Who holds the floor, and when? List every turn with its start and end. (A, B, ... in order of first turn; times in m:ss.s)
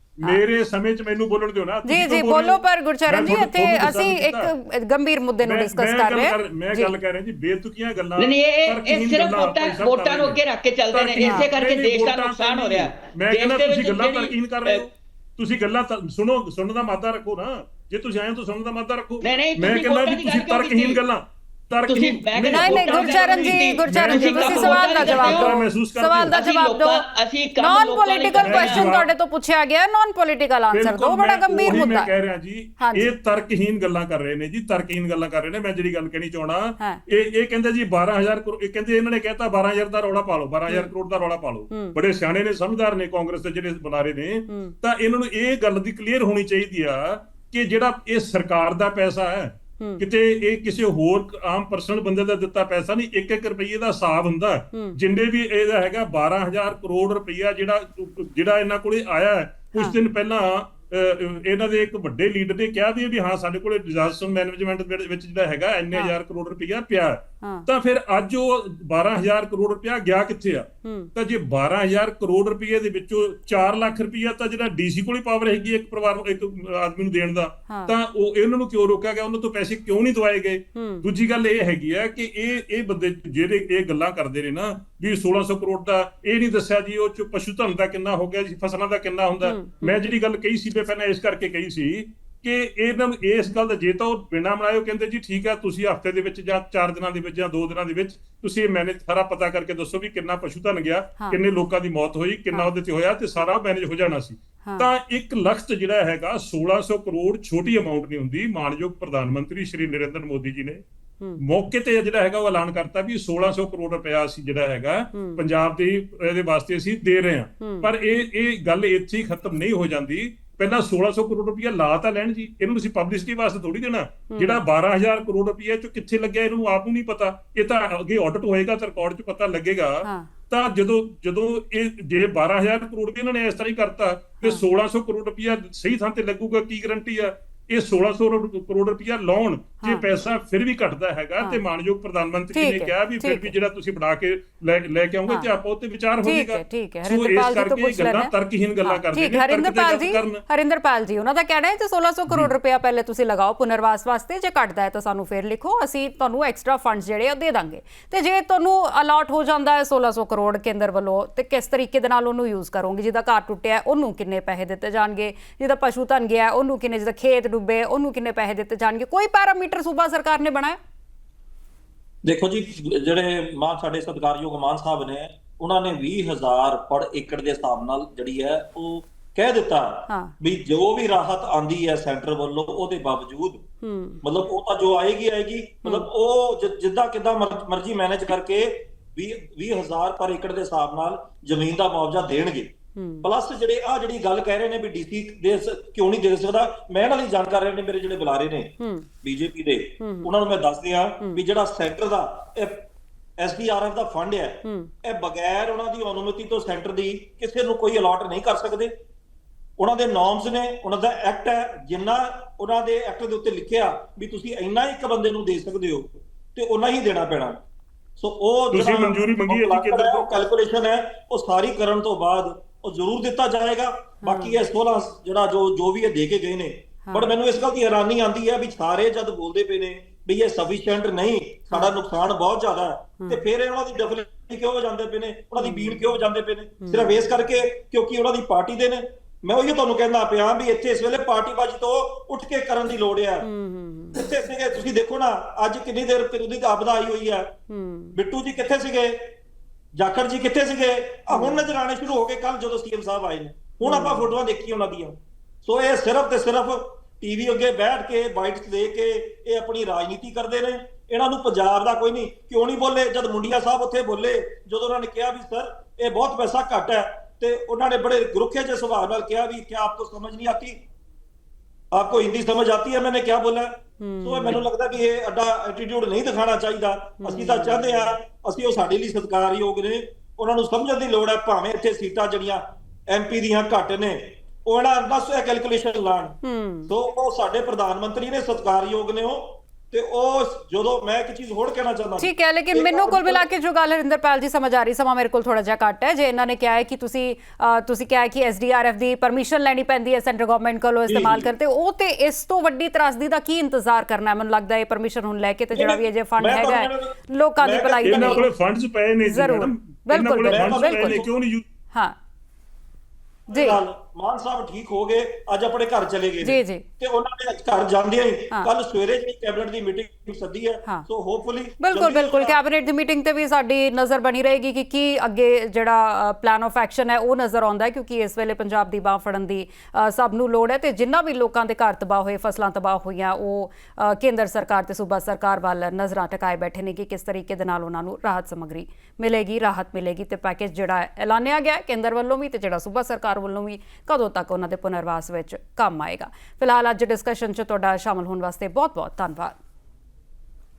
0:00.2-0:04.5 A
0:01.8-0:06.9 B
0:05.4-0:10.4 A
0:08.2-0:14.9 C
0:10.9-0:26.3 A
0:11.2-0:11.5 B
0:19.2-0:21.0 C
0:21.9-0:25.6 C
0:22.4-0:27.0 B
0:26.3-0:28.9 C
0:27.6-0:32.1 B
0:28.4-0:29.1 A
0:30.7-1:50.8 A
0:32.8-0:33.1 B
0:41.7-0:42.0 B
0:44.5-0:44.8 B
0:54.7-0:55.0 B
1:07.4-1:07.7 B
1:10.8-1:11.1 B
1:17.7-1:17.9 B
1:20.8-1:21.1 B
1:29.4-1:30.1 B
1:44.6-1:44.9 B
1:51.4-2:30.4 A
1:55.1-1:55.4 B
1:57.6-1:57.9 B
2:04.3-2:04.6 B
2:10.0-2:10.3 B
2:22.5-2:23.5 B
2:25.3-2:25.5 B
2:26.2-2:50.8 B
2:52.2-3:03.6 D
3:00.1-3:00.4 B
3:03.8-3:04.2 B
3:04.2-3:18.7 D
3:13.0-3:13.3 B
3:18.8-3:19.1 B
3:19.2-3:28.9 D
3:20.0-3:20.3 B
3:24.6-3:24.9 B
3:29.8-3:37.6 D
3:38.2-4:03.5 D
3:38.7-3:40.3 A
3:44.2-3:44.6 B
3:47.1-3:47.3 B
3:51.7-3:52.0 B
3:55.6-3:56.0 B
3:56.8-3:57.2 B
4:03.4-4:04.2 B
4:04.1-4:07.5 D
4:07.7-4:08.2 B
4:08.1-4:09.4 D
4:09.9-4:30.8 D
4:11.3-4:11.7 B
4:13.8-4:14.3 B
4:31.9-4:53.4 D
4:34.0-4:34.6 B
4:37.2-4:38.1 B
4:46.4-4:46.9 B
4:52.2-5:08.4 B
5:01.1-5:01.5 D
5:05.7-5:08.4 D
5:08.0-5:11.6 A
5:09.2-5:11.2 B
5:10.4-5:11.3 D
5:13.5-5:22.6 D
5:13.5-5:13.8 B
5:16.4-5:16.8 B
5:21.8-5:49.6 B